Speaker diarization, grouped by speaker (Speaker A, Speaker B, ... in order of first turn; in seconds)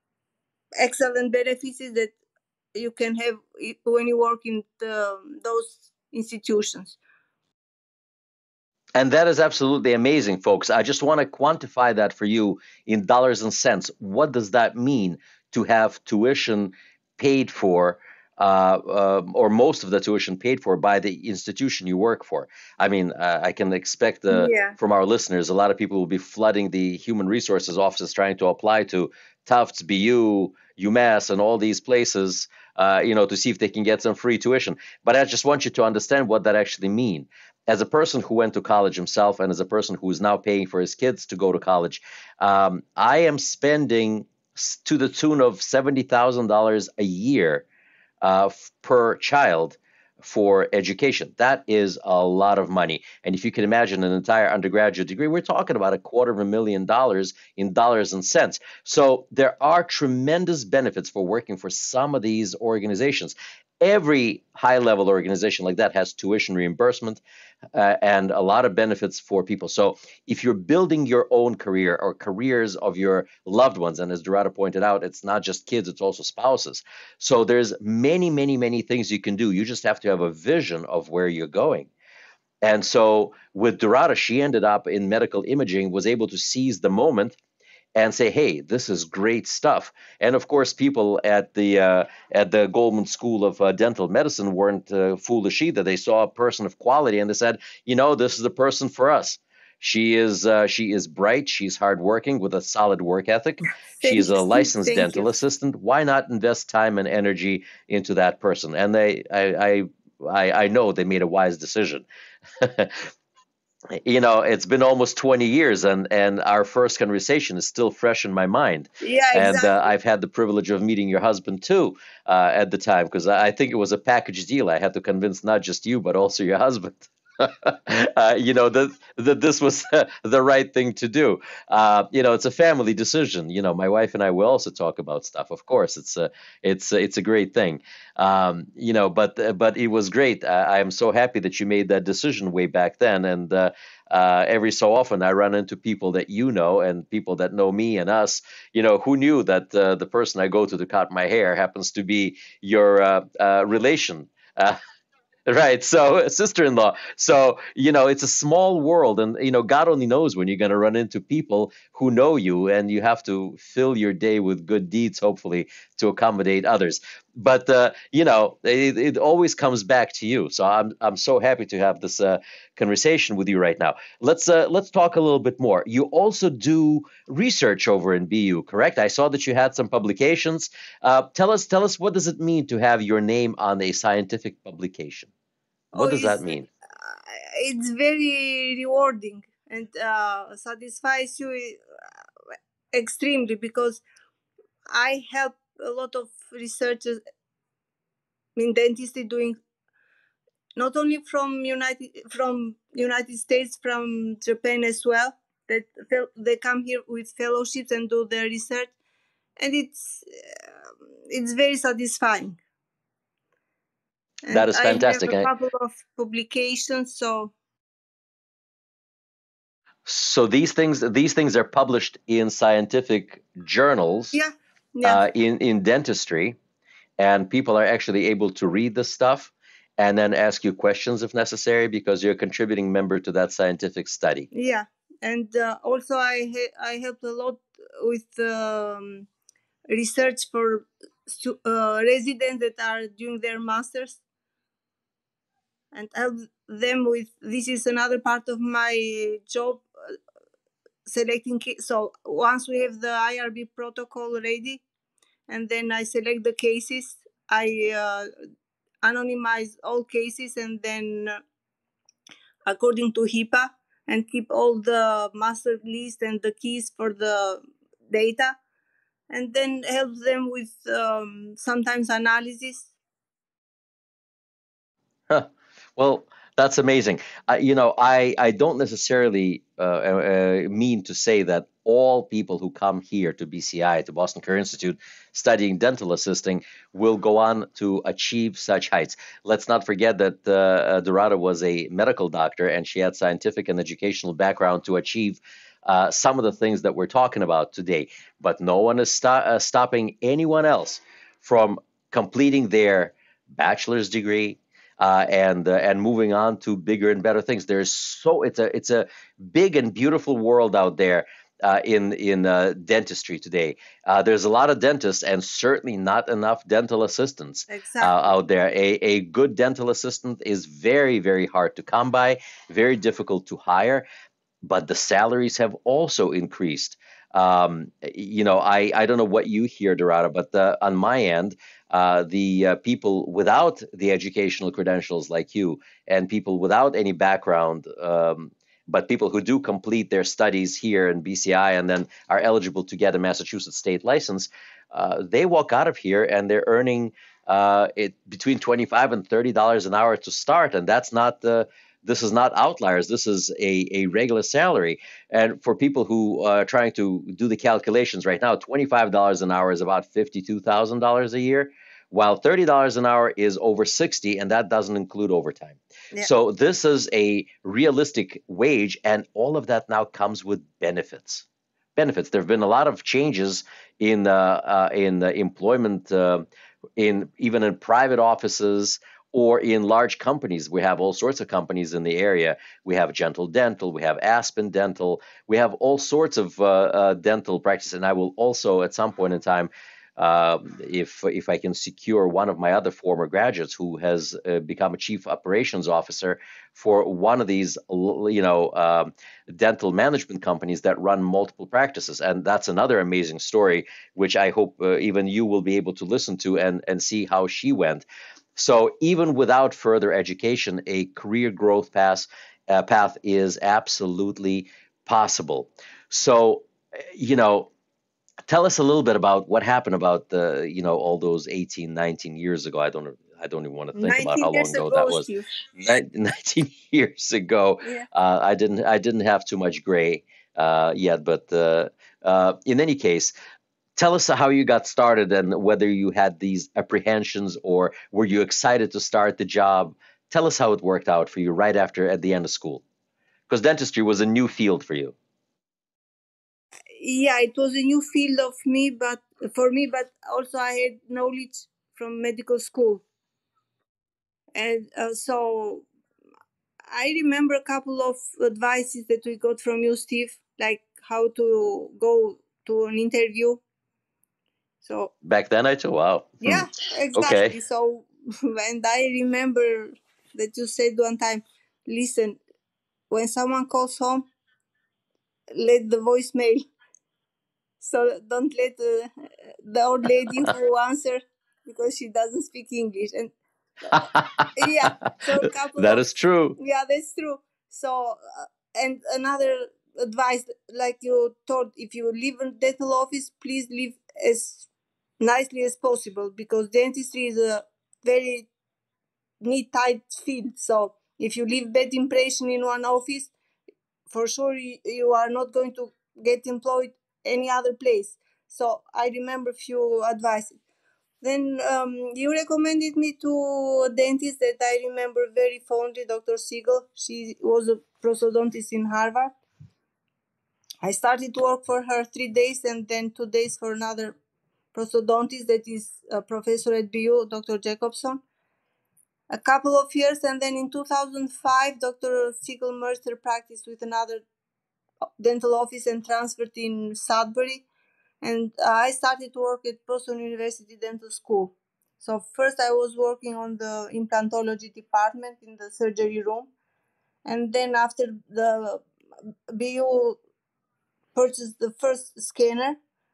Speaker A: 0.8-2.1, 2.7-7.0, 24.3-24.8, 103.9-105.3, 119.0-119.8, 185.9-191.8, 192.9-194.0, 194.9-197.2, 198.6-199.6, 200.8-208.9, 209.6-210.6, 211.3-212.6, 214.4-217.5, 224.3-225.2, 234.5-239.3, 239.9-244.2, 245.9-249.8, 251.1-254.8, 255.5-258.3, 259.0-261.4, 262.7-268.6, 269.3-272.9, 317.7-318.3, 423.9-425.5, 446.9-453.0, 454.5-455.9, 456.9-463.6, 464.8-465.1, 466.4-472.4, 473.1-474.2, 475.5-476.6, 477.8-479.1, 479.6-483.3, 484.6-494.7, 495.2-498.5, 499.4-503.3, 504.1-510.6, 511.2-519.3, 520.8-524.1, 524.7-528.2, 529.3-534.2, 535.2-537.6, 538.2-546.5, 547.2-548.8, 549.5-550.2, 551.1-552.8
Speaker B: 9.0-47.6, 48.2-67.2, 67.7-81.9, 82.6-87.4, 87.9-112.0, 112.6-113.1, 113.9-154.8, 155.5-185.3, 185.9-186.7, 214.5-215.5, 220.1-224.4, 225.0-226.6, 227.2-234.5, 275.3-324.1, 324.6-376.4, 377.0-417.7, 418.5-433.3, 434.0-442.8, 443.5-445.1, 465.2-467.6, 483.9-484.5, 485.8-486.6